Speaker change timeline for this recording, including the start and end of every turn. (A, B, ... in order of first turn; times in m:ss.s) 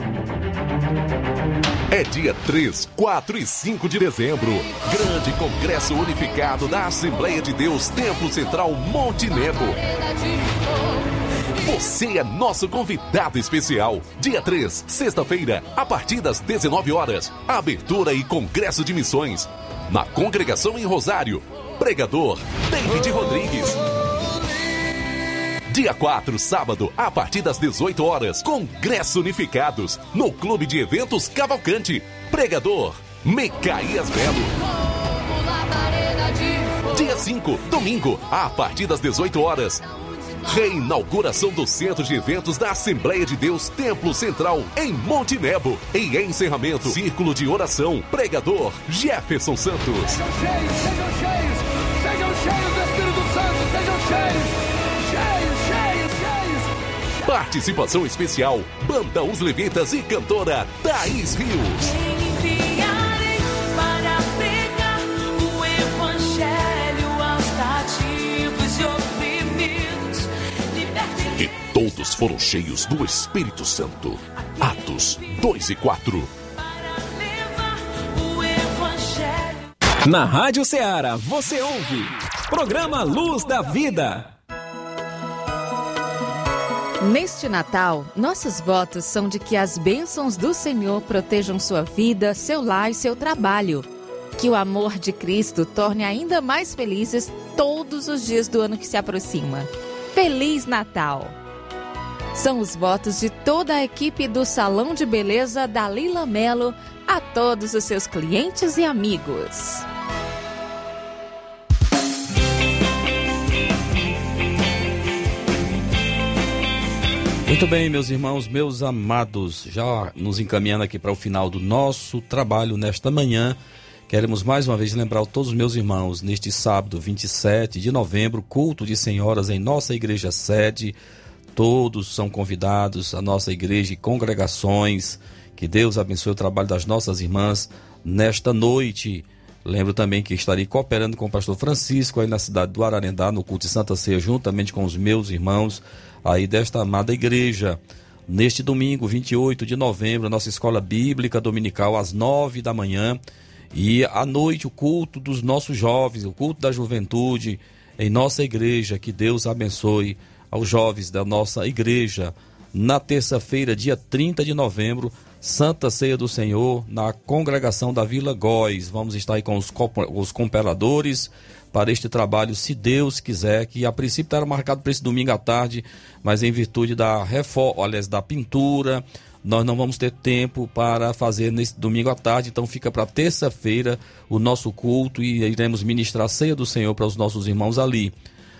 0:01.9-0:09.8 A
0:11.6-0:23.8 A
0:25.7-0:34.6 A
0:36.8-0:39.8 A
0:40.4-0:50.2 A
0:52.3-0:54.5 B
0:55.2-0:56.5 B
0:57.2-1:01.9 A
1:01.8-1:11.7 B
1:11.4-1:16.3 A
1:16.6-1:19.7 B
1:20.0-1:24.4 C
1:27.0-1:41.4 D
1:42.3-1:49.8 D
1:57.5-2:11.0 E
2:11.5-2:33.2 E
2:33.7-3:08.1 E